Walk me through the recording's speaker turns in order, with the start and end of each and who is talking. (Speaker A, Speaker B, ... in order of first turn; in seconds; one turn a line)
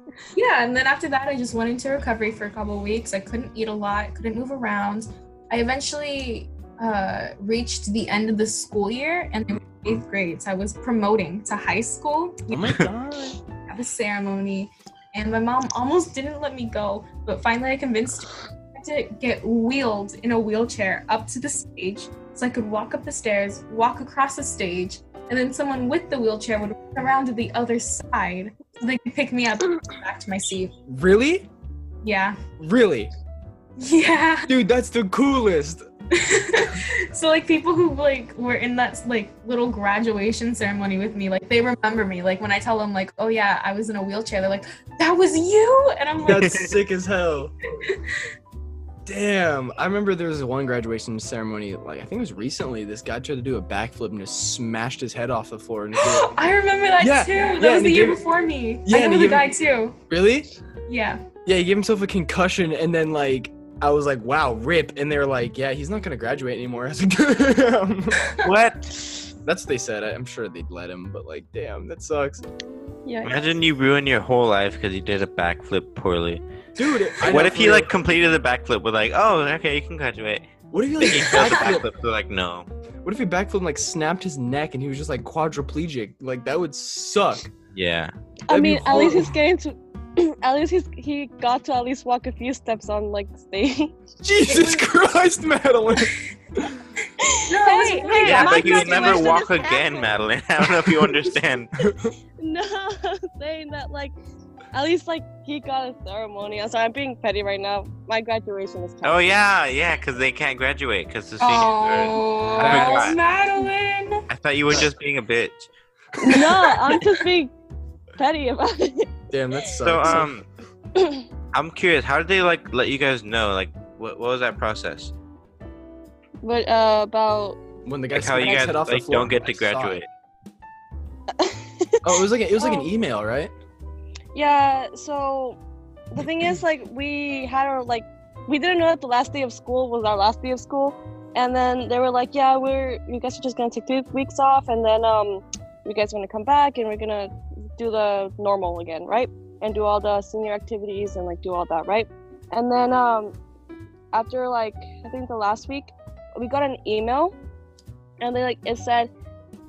Speaker A: 0.3-12.9
Speaker B: 12.5-13.4
Speaker A: 13.7-30.7
Speaker B: 30.9-31.5
Speaker A: 32.0-32.4
Speaker B: 32.6-33.1
Speaker A: 33.8-34.5
Speaker B: 34.5-35.8
Speaker A: 36.1-46.6
Speaker B: 46.2-47.5
Speaker C: 46.3-46.6
Speaker B: 49.1-56.3
Speaker A: 56.0-60.0
Speaker B: 57.0-58.2
Speaker B: 58.9-59.5
Speaker B: 60.1-60.5
Speaker A: 60.9-61.2
Speaker B: 61.5-68.3
Speaker C: 68.4-69.3
Speaker B: 69.5-72.4
Speaker D: 73.1-73.5
Speaker C: 73.2-76.4
Speaker B: 76.8-77.9
Speaker C: 77.2-80.5
Speaker B: 80.7-81.9
Speaker C: 81.0-82.7
Speaker A: 81.3-81.8
Speaker B: 83.0-87.5
Speaker C: 87.7-88.1
Speaker D: 88.5-94.0
Speaker B: 88.5-89.3
Speaker B: 94.2-96.2
Speaker D: 94.5-94.8
Speaker D: 97.2-100.1
Speaker A: 97.5-99.4
Speaker C: 98.1-101.7
Speaker B: 101.8-102.1
Speaker D: 102.4-104.1
Speaker D: 104.7-109.5
Speaker C: 109.0-113.2
Speaker A: 111.4-114.2
Speaker B: 112.5-113.2
Speaker C: 114.3-115.7
Speaker D: 116.2-117.5
Speaker D: 118.2-119.1
Speaker B: 119.3-120.3
Speaker C: 119.8-120.5
Speaker D: 121.0-121.3
Speaker C: 121.5-125.1
Speaker D: 126.4-127.6
Speaker B: 127.8-130.0
Speaker C: 128.1-130.1
Speaker D: 131.4-132.9
Speaker B: 132.0-133.5
Speaker D: 134.3-135.6
Speaker D: 136.1-153.3
Speaker D: 154.1-157.3
Speaker D: 158.2-159.1